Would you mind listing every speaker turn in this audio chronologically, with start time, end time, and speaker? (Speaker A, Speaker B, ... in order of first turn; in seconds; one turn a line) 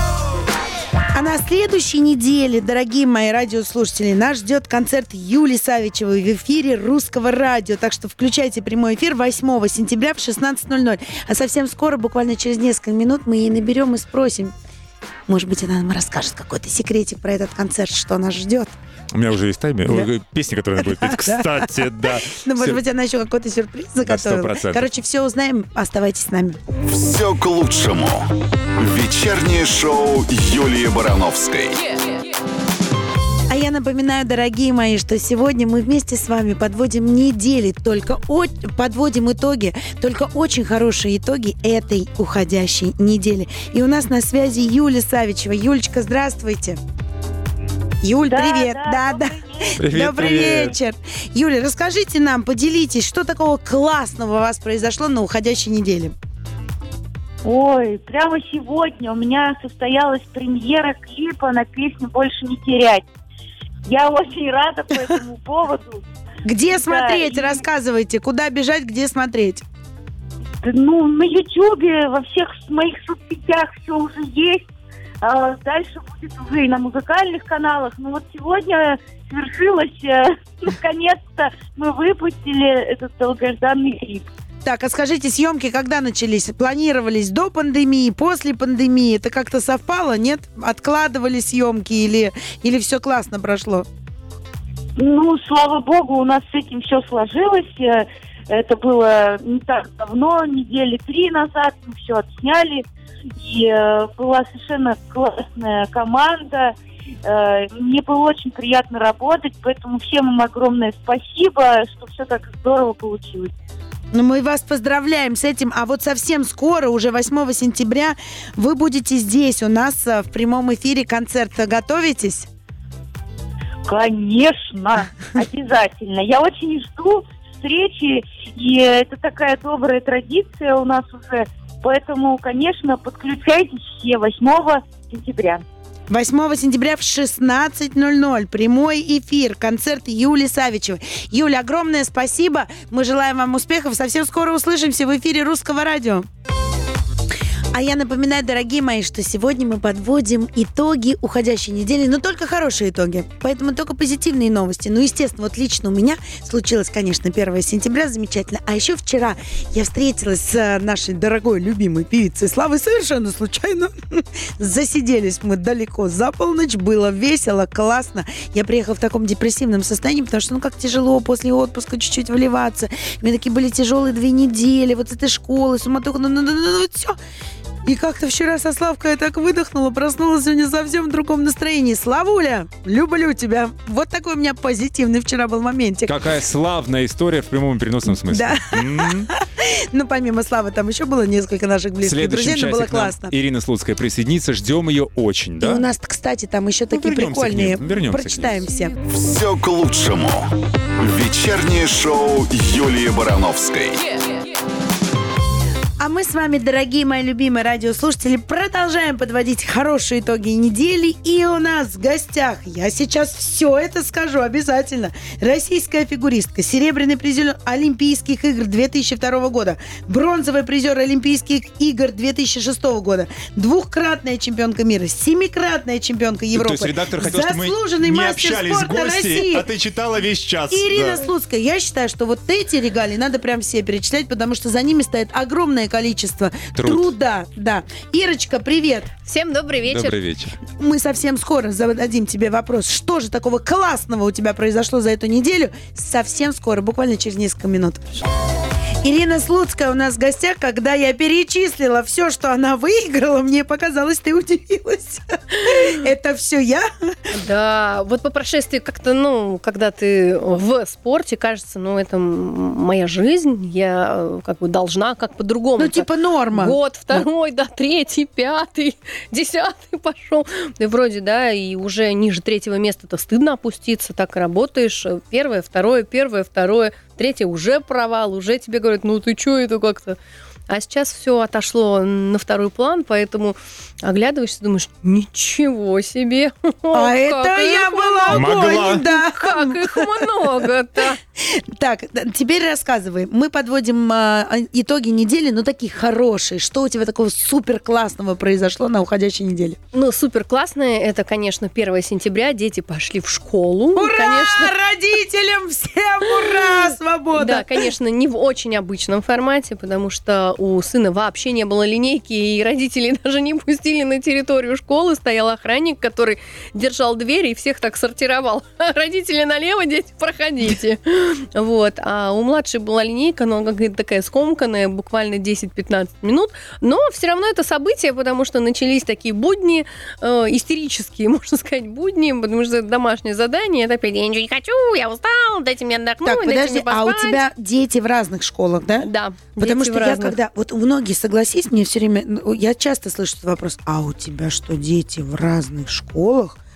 Speaker A: 1.1-14.5
Speaker A: 15.3-18.7
Speaker B: 19.1-22.8
Speaker A: 20.8-26.6
Speaker B: 24.0-24.8
Speaker C: 26.9-31.9
Speaker A: 33.5-46.8
Speaker A: 48.0-56.1
Speaker D: 48.3-49.8
Speaker B: 49.8-50.8
Speaker D: 57.4-63.0
Speaker D: 63.9-66.0
Speaker A: 66.4-69.6
Speaker D: 66.7-67.6
Speaker D: 70.6-74.6
Speaker D: 75.2-84.3
Speaker A: 84.6-93.9
Speaker D: 95.0-102.8
Speaker D: 103.4-106.7
Speaker D: 107.2-113.5
Speaker A: 114.1-122.5
Speaker D: 123.9-135.6
Speaker A: 136.1-146.3
Speaker A: 147.7-177.2
Speaker A: 177.8-186.1
Speaker B: 186.1-189.3
Speaker A: 188.2-193.3
Speaker B: 192.0-195.8
Speaker A: 195.6-198.9
Speaker B: 196.9-198.5
Speaker C: 199.1-204.1
Speaker A: 206.0-229.7
Speaker B: 226.5-231.3
Speaker A: 230.7-239.1
Speaker B: 236.7-237.1
Speaker E: 239.2-240.2
Speaker B: 239.8-240.6
Speaker A: 240.8-248.3
Speaker A: 249.0-257.1
Speaker E: 255.6-255.9
Speaker E: 257.3-280.2
Speaker A: 265.8-267.2
Speaker E: 280.7-291.2
Speaker A: 286.9-290.6
Speaker B: 288.3-289.0
Speaker A: 291.4-299.8
Speaker E: 299.9-304.7
Speaker A: 303.9-307.8
Speaker E: 307.4-337.4
Speaker A: 336.2-346.6
Speaker E: 339.0-340.4